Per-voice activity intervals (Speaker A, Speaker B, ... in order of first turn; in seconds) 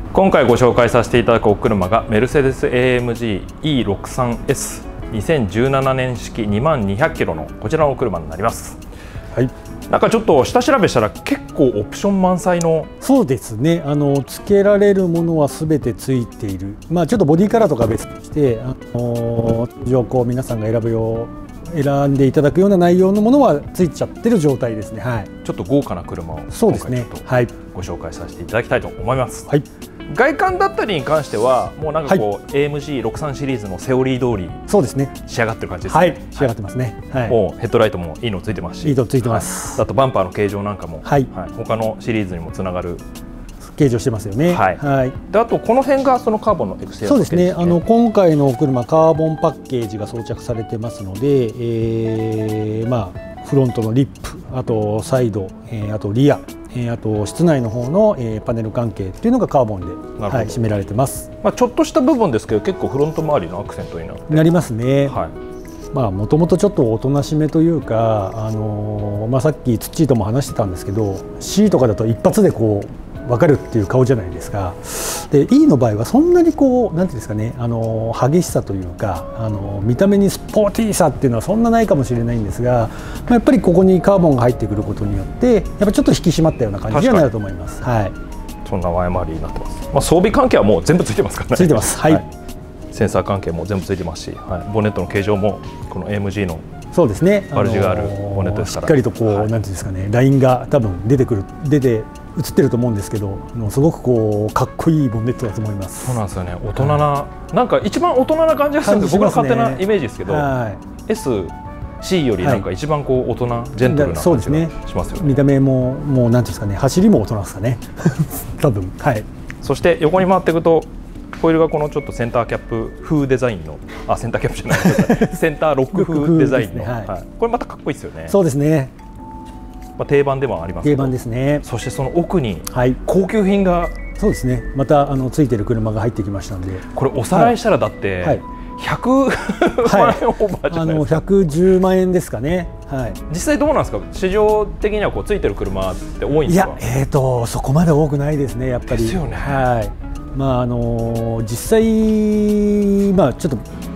Speaker A: 0.1-8.8, 9.9-12.9, 25.4-29.5, 30.1-34.6, 35.2-36.5, 37.3-43.0, 44.5-47.8, 60.2-60.9, 61.4-64.5, 65.0-65.3, 86.9-87.3, 88.6-92.2, 92.9-96.6, 97.5-99.5, 106.0-110.5, 111.0-115.4, 119.6-128.4, 130.0-134.0, 136.9-141.2, 143.3-146.8, 148.8-149.7
Speaker B: 13.0-25.3, 26.5-27.5, 34.7-35.2, 35.9-37.4, 38.8-39.8, 41.0-41.3, 43.6-45.2, 47.0-61.3, 64.3-65.2, 65.9-88.2, 91.5-92.2, 96.9-106.2, 106.8-107.0, 108.8-110.8, 113.8-119.3, 124.7-125.4, 125.9-127.1, 128.3-128.9, 130.8-131.7, 132.7-133.0, 134.2-137.5, 139.8-143.2, 146.5-153.7